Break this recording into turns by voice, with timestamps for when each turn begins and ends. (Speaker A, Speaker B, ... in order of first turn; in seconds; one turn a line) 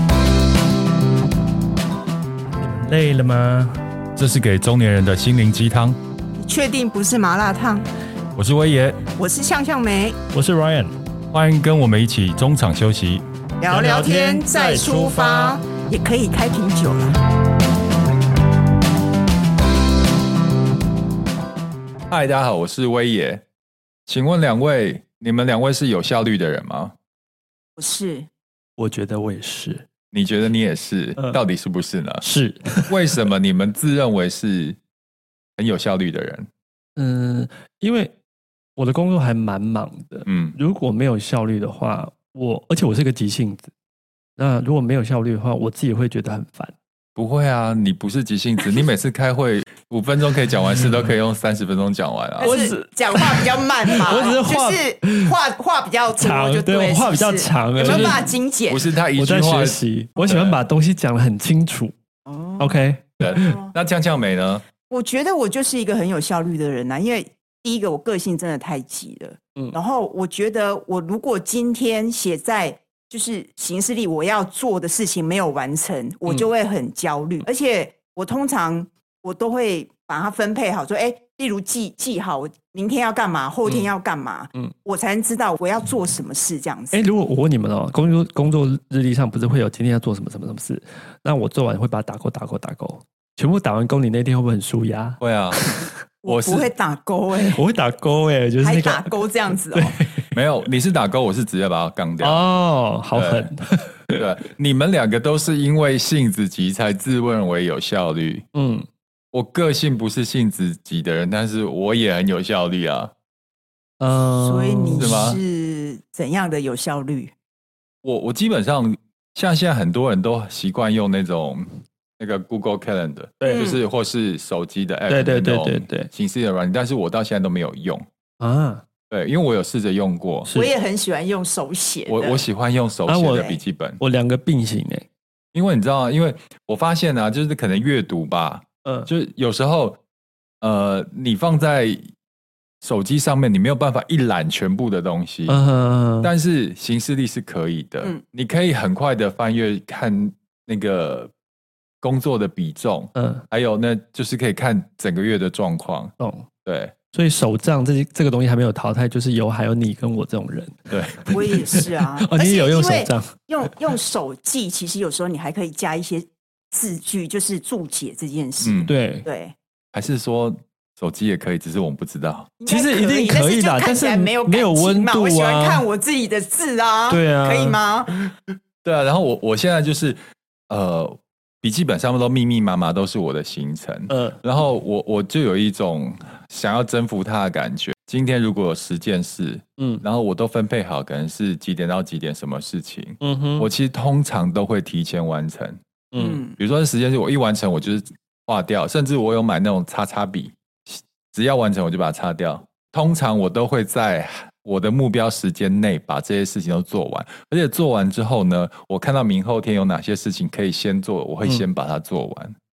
Speaker A: 2.5-3.8
Speaker B: 4.2-6.0
Speaker C: 6.4-7.8
Speaker B: 8.3-9.0
Speaker C: 9.1-10.2
Speaker A: 10.3-10.9
Speaker B: 11.3-13.2
Speaker C: 13.6-17.2
Speaker A: 13.7-15.6
Speaker B: 22.1-23.4
Speaker B: 24.1-26.9
Speaker C: 27.8-28.3
Speaker A: 28.8-29.8
Speaker B: 30.1-32.2
Speaker A: 32.2-33.1
Speaker B: 32.9-34.8
Speaker B: 35.6-36.5
Speaker A: 37.0-38.1
Speaker A: 38.8-43.7
Speaker B: 40.2-40.5
Speaker A: 44.4-46.7
Speaker B: 47.1-52.5
Speaker A: 52.4-55.4
Speaker C: 52.4-58.8
Speaker A: 56.2-58.3
Speaker B: 57.8-60.6
Speaker A: 59.1-61.9
Speaker C: 62.2-62.8
Speaker A: 62.6-63.5
Speaker B: 63.2-64.6
Speaker C: 63.3-63.7
Speaker C: 64.9-87.0
Speaker A: 86.9-95.9
Speaker B: 95.2-95.6
Speaker C: 96.2-97.6
Speaker B: 96.3-96.7
Speaker A: 97.5-100.3
Speaker C: 98.6-100.0
Speaker B: 100.3-102.4
Speaker A: 102.2-104.2
Speaker B: 103.1-103.5
Speaker B: 104.1-108.4
Speaker A: 108.5-108.8
Speaker B: 109.3-113.1
Speaker A: 114.0-115.2
Speaker C: 114.3-117.3
Speaker B: 115.0-115.4
Speaker B: 118.0-121.7
Speaker B: 122.2-128.0
Speaker C: 123.5-123.8
Speaker A: 125.1-126.1
Speaker A: 128.4-128.8
Speaker B: 129.1-130.5
Speaker A: 130.4-130.7
Speaker C: 130.5-132.4
Speaker B: 132.1-134.0
Speaker A: 133.1-133.5
Speaker C: 133.3-133.6
Speaker A: 134.0-135.1
Speaker B: 135.5-140.0
Speaker A: 138.8-139.1
Speaker B: 140.6-142.0
Speaker B: 142.8-145.7
Speaker A: 145.5-146.3
Speaker B: 146.2-151.3
Speaker B: 152.0-156.1
Speaker A: 153.2-153.4
Speaker A: 156.2-156.5
Speaker B: 156.6-156.9
Speaker A: 157.1-163.3
Speaker B: 160.9-161.2
Speaker C: 161.3-169.5
Speaker B: 168.6-168.9
Speaker A: 168.8-169.3
Speaker B: 169.9-172.5
Speaker C: 172.6-178.1
Speaker A: 172.7-175.8
Speaker A: 177.1-177.8
Speaker B: 178.8-180.2
Speaker B: 180.7-195.8
Speaker A: 184.1-184.4
Speaker A: 189.8-190.0
Speaker A: 193.2-193.7
Speaker A: 196.1-196.4
Speaker C: 196.2-196.5
Speaker B: 196.6-212.6